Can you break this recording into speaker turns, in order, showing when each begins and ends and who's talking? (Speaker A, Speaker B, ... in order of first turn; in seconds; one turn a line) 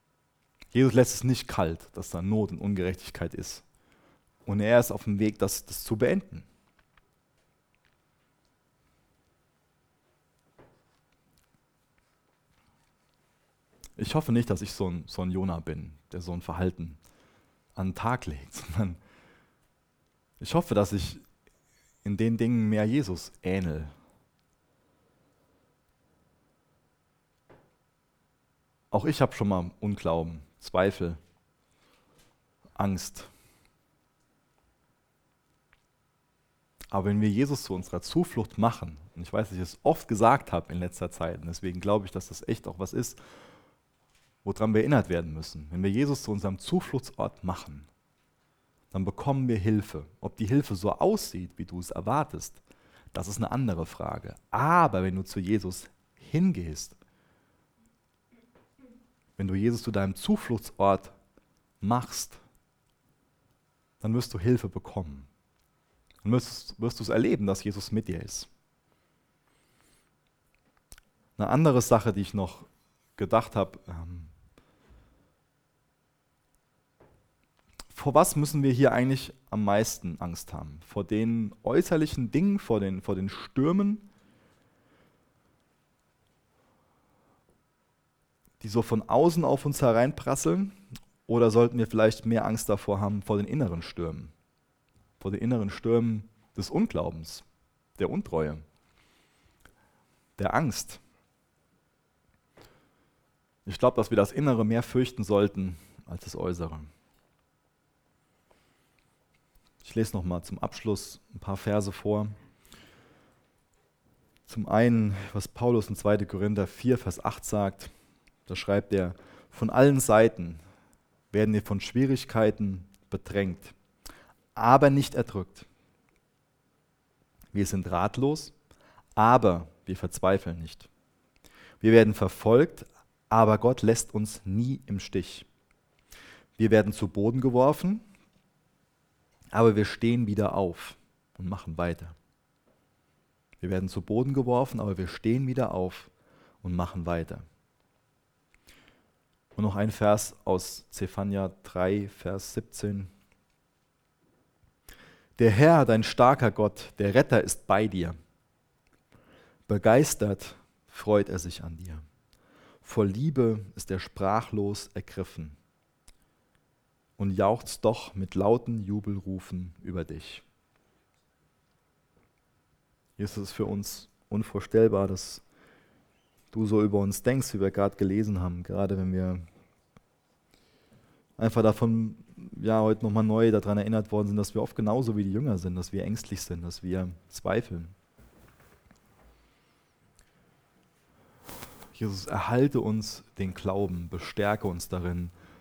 Speaker A: 0.7-3.6
Speaker A: 4.5-6.5
Speaker A: 14.0-17.0
Speaker A: 17.8-19.0
Speaker A: 20.4-21.2
Speaker A: 22.0-23.9
Speaker A: 28.9-31.2
Speaker A: 32.8-33.3
Speaker A: 36.9-43.2
Speaker A: 44.4-47.9
Speaker A: 48.9-52.6
Speaker A: 53.1-57.0
Speaker A: 59.4-61.1
Speaker A: 61.8-62.4
Speaker A: 64.0-65.3
Speaker A: 66.2-68.5
Speaker A: 71.4-74.3
Speaker A: 77.9-84.1
Speaker A: 88.6-90.8
Speaker A: 91.3-94.3
Speaker A: 95.2-97.5
Speaker A: 98.0-98.6
Speaker A: 100.4-101.0
Speaker A: 103.7-106.9
Speaker A: 109.8-112.3
Speaker A: 114.5-117.9
Speaker A: 118.5-120.6
Speaker A: 121.3-123.7
Speaker A: 124.6-125.7
Speaker A: 127.5-128.5
Speaker A: 129.2-130.9
Speaker A: 131.8-135.5
Speaker A: 136.6-138.1
Speaker A: 139.5-142.2
Speaker A: 143.6-146.1
Speaker A: 146.6-147.4
Speaker A: 149.6-153.1
Speaker A: 155.4-158.2
Speaker A: 159.7-162.0
Speaker A: 162.8-165.6
Speaker A: 167.2-170.4
Speaker A: 173.2-175.4
Speaker A: 176.5-179.4
Speaker A: 181.4-187.9
Speaker A: 191.9-195.3